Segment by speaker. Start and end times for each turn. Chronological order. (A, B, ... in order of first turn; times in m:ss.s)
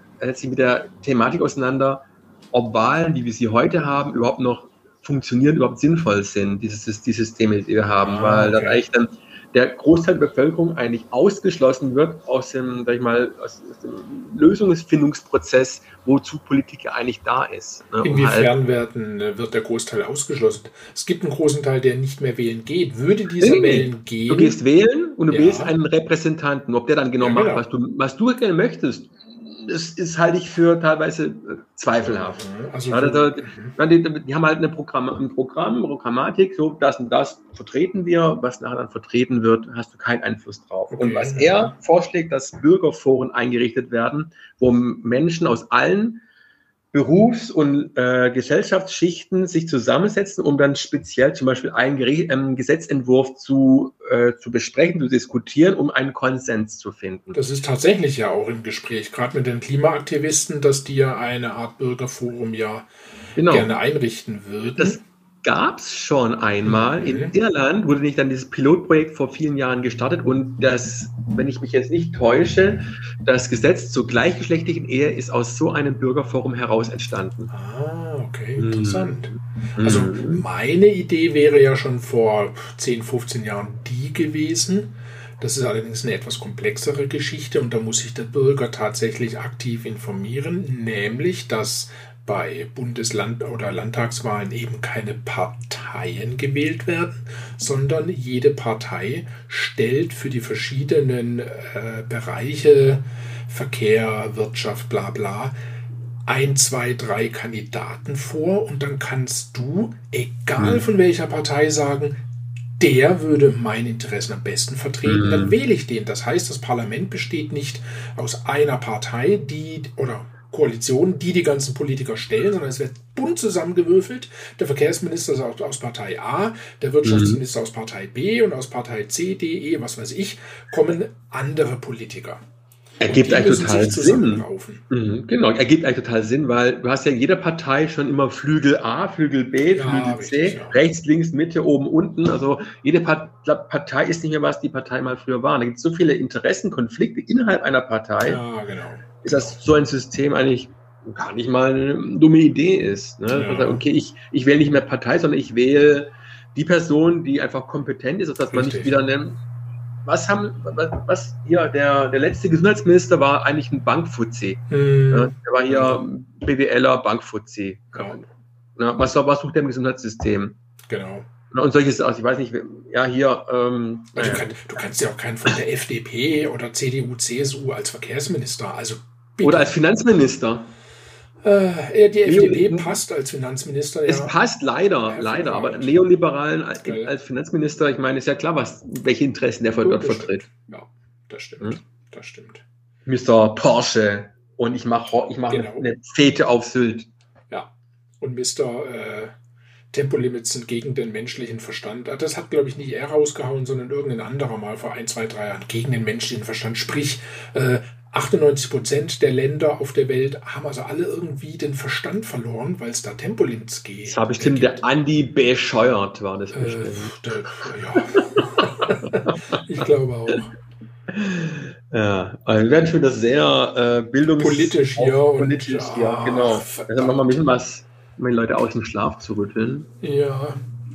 0:00.2-0:18.5 A
0:08.0-0:08.8 B
0:18.0-0:24.6 B
0:23.4-0:46.2 A
0:25.3-0:25.7 B
0:27.2-0:27.6 B
0:32.0-0:33.8 B
0:40.9-0:41.7 B
0:46.9-0:57.4 A
0:57.3-1:02.9 B
1:03.4-1:03.7 A
1:03.5-1:05.0 B
1:04.8-1:17.5 A
1:06.6-1:07.3 B
1:17.5-1:19.3 B
1:18.6-1:20.4 A
1:19.8-1:45.6 B
1:46.3-1:52.2 B
1:50.6-1:50.8 A
1:52.8-2:12.4 B
1:55.0-1:55.6 A
2:07.0-2:07.4 A
2:13.0-2:28.4 A
2:13.0-2:14.8 B
2:19.8-2:20.8 B
2:28.2-2:29.6 B
2:29.2-2:39.4 A
2:33.3-2:33.8 B
2:38.5-2:39.0 B
2:40.0-2:48.2 A
2:44.7-2:46.0 B
2:47.9-2:48.2 B
2:48.8-2:50.6 A
2:50.9-2:51.3 B
2:51.5-2:54.8 A
2:54.2-2:59.7 B
2:59.4-3:00.7 A
3:01.4-3:04.3 B
3:02.2-3:03.0 A
3:04.1-3:10.5 A
3:05.1-3:06.1 B
3:06.8-3:07.1 B
3:09.8-3:12.6 B
3:13.1-3:17.1 A
3:15.5-3:15.8 B
3:17.5-3:19.3 B
3:19.9-3:34.8 B
3:34.1-3:39.4 A
3:36.5-3:40.5 B
3:41.1-3:49.9 A
3:44.4-3:47.4 B
3:50.0-3:50.6 B